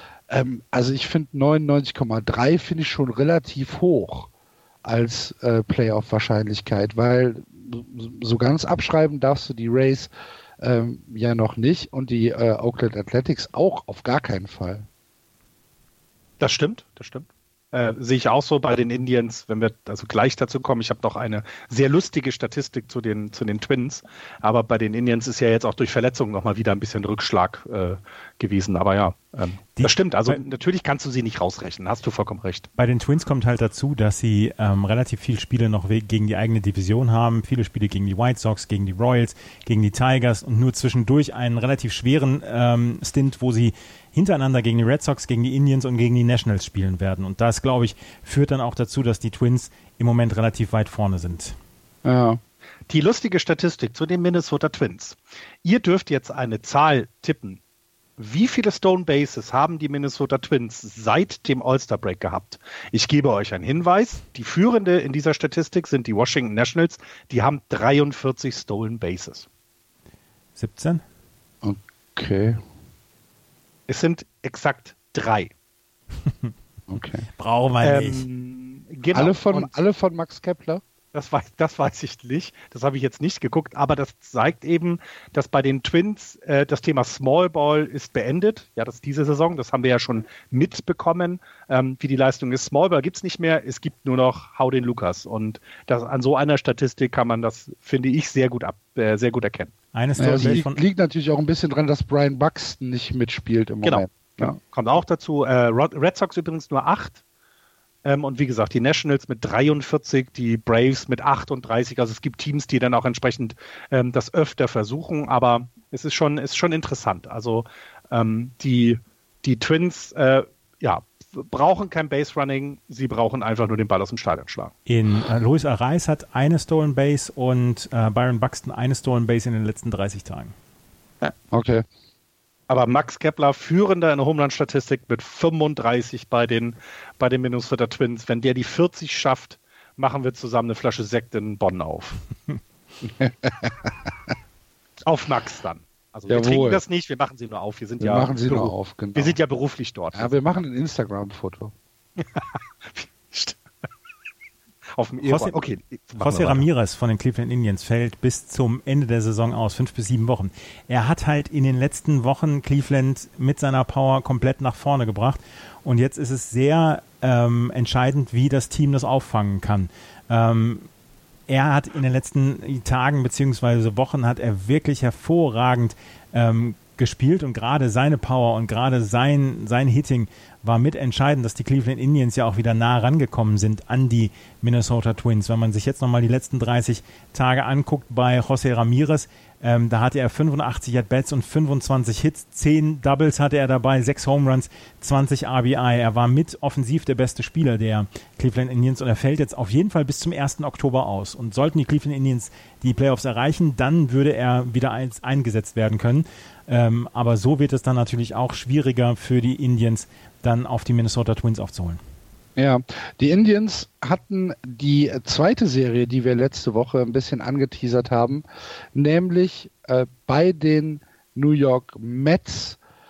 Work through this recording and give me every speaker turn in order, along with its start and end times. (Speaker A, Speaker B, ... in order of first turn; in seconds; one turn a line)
Speaker A: 0.3-4.3
Speaker A: 4.8-14.8
Speaker B: 16.4-32.7
Speaker C: 29.8-30.4
Speaker C: 32.8-51.5
Speaker A: 52.0-52.4
Speaker B: 52.9-57.6
Speaker B: 58.2-69.5
Speaker C: 70.5-71.0
Speaker A: 71.6-72.6
Speaker B: 73.9-75.5
Speaker A: 76.9-77.2
Speaker C: 77.4-78.2
Speaker B: 77.8-79.7
Speaker A: 79.1-80.8
Speaker B: 81.1-99.7
Speaker C: 99.9-100.8
Speaker A: 100.2-104.6
Speaker B: 103.8-107.2
Speaker B: 108.0-124.7
Speaker C: 124.9-130.5
Speaker A: 131.5-131.8
Speaker B: 132.7-142.2
Speaker A: 143.0-144.3
Speaker B: 145.0-150.3
Speaker A: 146.3-146.8
Speaker A: 148.0-149.4
Speaker A: 150.1-151.7
Speaker B: 152.2-153.6
Speaker B: 154.9-156.7
Speaker C: 155.2-155.6
Speaker C: 156.2-170.9
Speaker C: 171.5-212.0
Speaker A: 212.6-218.4
Speaker A: 218.9-222.8